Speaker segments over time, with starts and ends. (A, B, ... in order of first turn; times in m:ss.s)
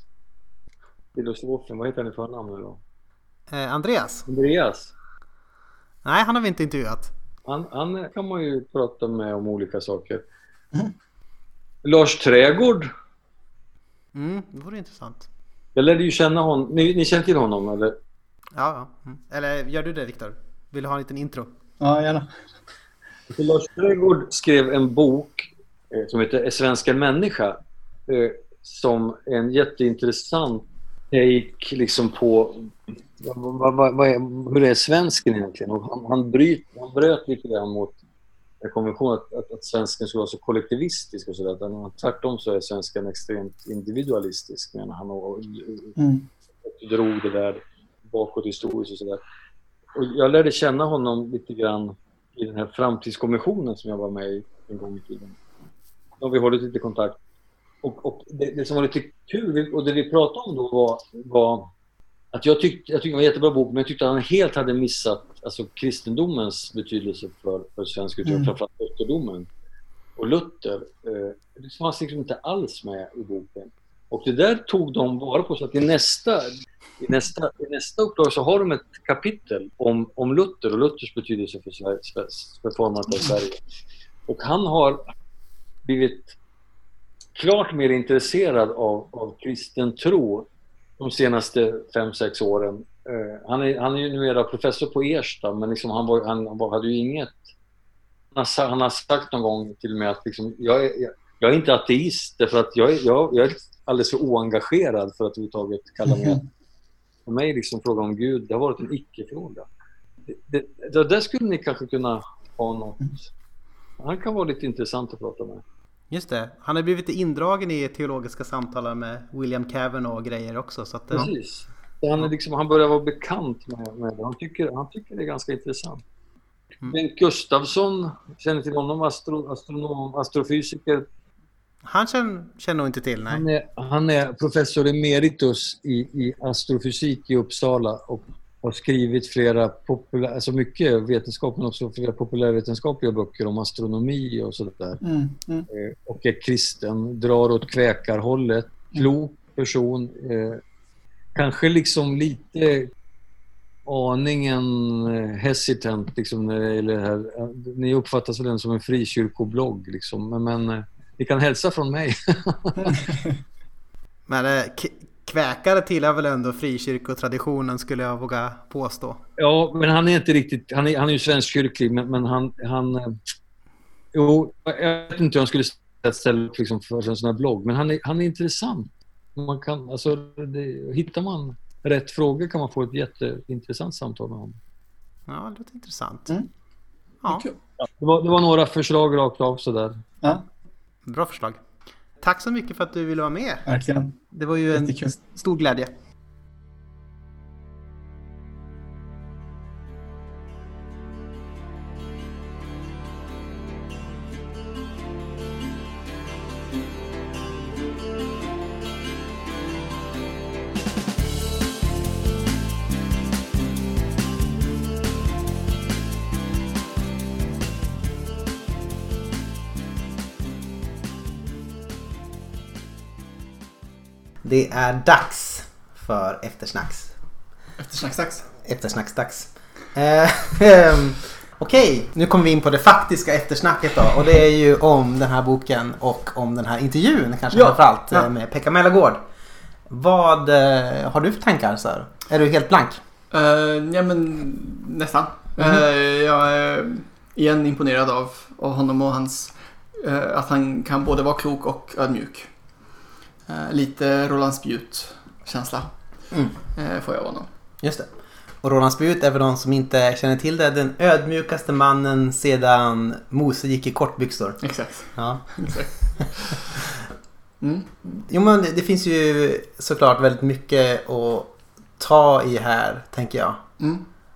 0:01.2-0:02.8 A
0:03.5-0:04.2 B
0:04.3-0:04.9 A
0:06.0-0:07.1 B
0:07.5-0:10.2 A
0:11.8-0:12.9 A
0:14.1-0:15.3 B
0:15.8-0:18.0 A
0:18.6-0:21.5 B
0:21.8-0:22.4 C
0:23.3-0:38.0 A
0:38.6-0:46.0 A
0:46.0-0:46.3 C
0:46.6-0:49.2 A
0:50.0-0:55.4 A
0:56.2-0:57.2 A
0:57.8-1:01.7 A
1:02.3-1:09.5 A
1:08.2-1:08.5 C
1:10.2-1:23.6 A
1:24.3-1:25.0 A
1:25.8-1:26.4 A
1:27.4-1:30.5 A
1:31.0-1:37.4 A
1:38.4-1:46.5 A
1:47.3-1:49.7 A
1:50.3-1:53.3 A
1:54.0-1:55.6 A
1:56.1-2:01.3 B
2:01.1-2:06.0 A
2:06.8-2:11.1 A
2:11.8-2:13.4 B
2:13.3-2:25.0 A
2:25.0-2:25.7 C
2:25.7-2:30.6 A
2:31.4-2:32.9 A
2:33.9-2:43.0 A
2:44.3-2:49.2 B
2:49.4-2:53.2 A
2:54.1-3:04.6 A
3:05.3-3:06.3 B
3:07.3-3:07.6 C
3:08.0-3:10.1 A
3:11.0-3:11.6 B
3:12.2-3:13.7 B
3:13.7-3:14.2 C
3:14.3-3:15.9 B
3:14.7-3:15.2 C
3:44.4-3:47.2 B
3:47.8-3:48.5 C
3:48.6-3:59.2 B
3:57.5-3:58.3 C
3:59.9-4:03.0 B
4:03.3-4:17.5 C
4:17.8-4:18.1 B
4:18.6-4:26.1 B
4:24.6-4:26.8 C
4:27.6-4:27.9 C
4:28.0-4:33.6 B